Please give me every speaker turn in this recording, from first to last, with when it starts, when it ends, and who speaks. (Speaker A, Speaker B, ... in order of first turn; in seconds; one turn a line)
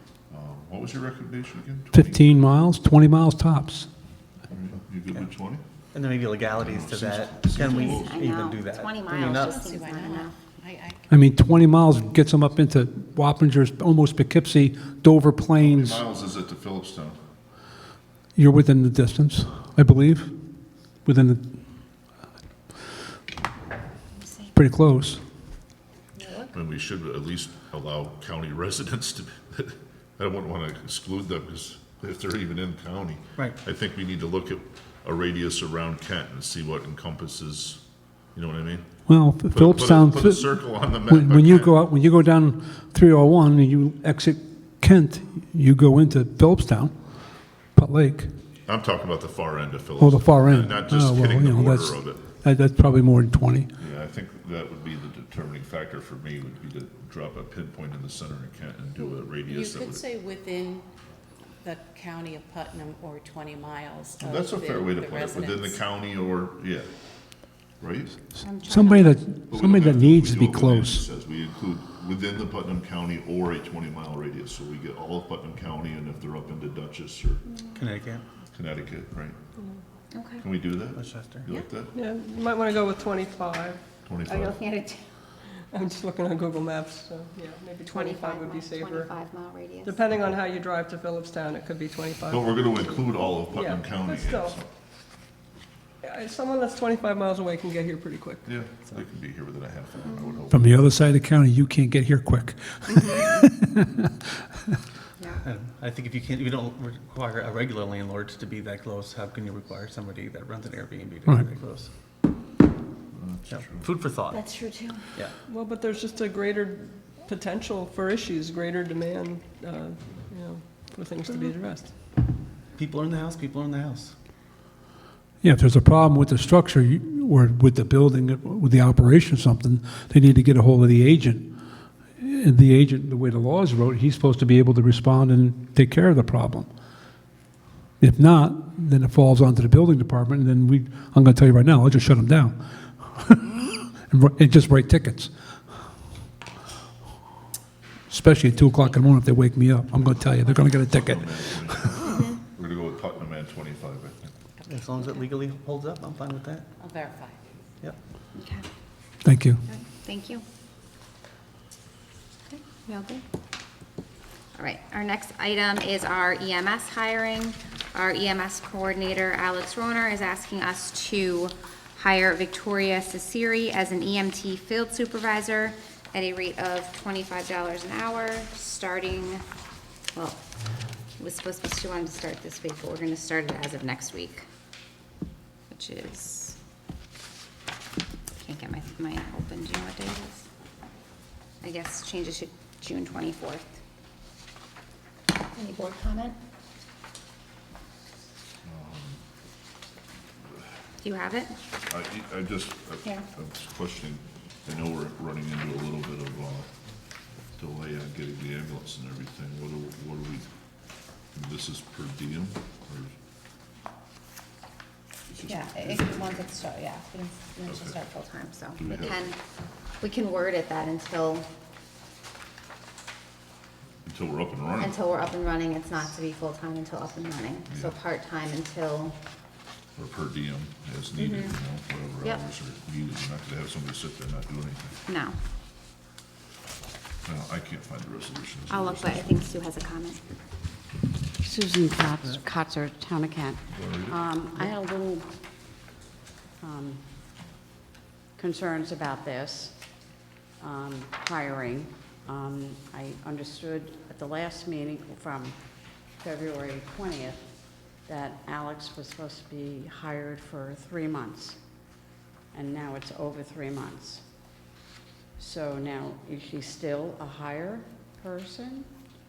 Speaker A: 0.3-2.2
Speaker B: 1.9-3.9
Speaker A: 4.5-5.6
Speaker C: 5.9-9.6
Speaker A: 6.5-8.2
Speaker D: 7.6-10.3
Speaker E: 9.4-11.0
Speaker B: 11.1-16.0
Speaker A: 15.6-17.2
Speaker B: 18.4-20.3
Speaker B: 21.1-21.4
Speaker D: 24.2-24.5
Speaker B: 24.5-25.2
Speaker D: 26.2-26.5
Speaker A: 26.5-37.8
Speaker A: 38.3-38.9
Speaker B: 39.1-47.0
Speaker A: 39.4-41.8
Speaker B: 47.7-48.3
Speaker A: 48.7-52.2
Speaker B: 50.0-53.7
Speaker A: 53.8-60.1
Speaker E: 59.4-60.9
Speaker E: 61.6-65.8
Speaker A: 64.2-66.9
Speaker A: 67.8-68.2
Speaker D: 68.4-69.2
Speaker B: 68.7-71.0
Speaker A: 69.5-77.4
Speaker D: 77.5-77.8
Speaker C: 77.7-78.3
Speaker A: 78.5-79.4
Speaker D: 80.1-80.5
Speaker A: 80.4-81.9
Speaker C: 81.0-81.5
Speaker F: 82.0-83.8
Speaker A: 84.0-84.6
Speaker D: 84.3-85.0
Speaker F: 85.7-89.2
Speaker D: 87.9-90.0
Speaker F: 89.8-94.6
Speaker A: 92.3-94.7
Speaker F: 96.0-98.6
Speaker A: 98.5-100.8
Speaker D: 100.1-100.4
Speaker B: 100.5-103.9
Speaker D: 105.2-105.4
Speaker C: 105.4-111.9
Speaker A: 113.1-113.9
Speaker C: 113.5-114.5
Speaker D: 114.3-115.0
Speaker F: 115.5-121.9
Speaker C: 122.8-124.1
Speaker B: 125.4-131.4
Speaker B: 132.2-136.7
Speaker B: 138.0-145.3
Speaker B: 148.1-151.9
Speaker D: 148.6-148.9
Speaker A: 150.7-154.3
Speaker C: 154.7-156.7
Speaker E: 156.8-157.4
Speaker D: 158.3-158.7
Speaker B: 159.2-159.6
Speaker D: 159.7-160.4
Speaker D: 162.5-163.2
Speaker D: 164.6-179.4
Speaker D: 180.1-180.4
Speaker D: 181.2-184.5
Speaker D: 185.7-186.6
Speaker D: 188.4-190.5
Speaker D: 191.6-193.8
Speaker D: 195.6-196.4
Speaker A: 198.7-199.2
Speaker D: 201.0-201.6
Speaker A: 201.9-206.7
Speaker A: 207.6-210.4
Speaker A: 211.3-213.1
Speaker A: 215.3-216.5
Speaker D: 215.3-219.4
Speaker A: 217.7-218.0
Speaker A: 218.8-219.2
Speaker D: 220.0-221.5
Speaker A: 224.1-225.0
Speaker D: 224.8-229.2
Speaker A: 227.7-227.9
Speaker A: 230.0-234.9
Speaker D: 231.2-231.6
Speaker D: 235.1-235.4
Speaker A: 237.2-239.3
Speaker D: 238.7-240.2
Speaker G: 241.4-245.3
Speaker A: 243.7-244.2
Speaker G: 246.6-247.0
Speaker G: 248.4-249.7
Speaker G: 250.6-255.6
Speaker G: 256.2-257.4
Speaker G: 258.1-261.6
Speaker G: 262.5-264.2
Speaker G: 265.4-268.9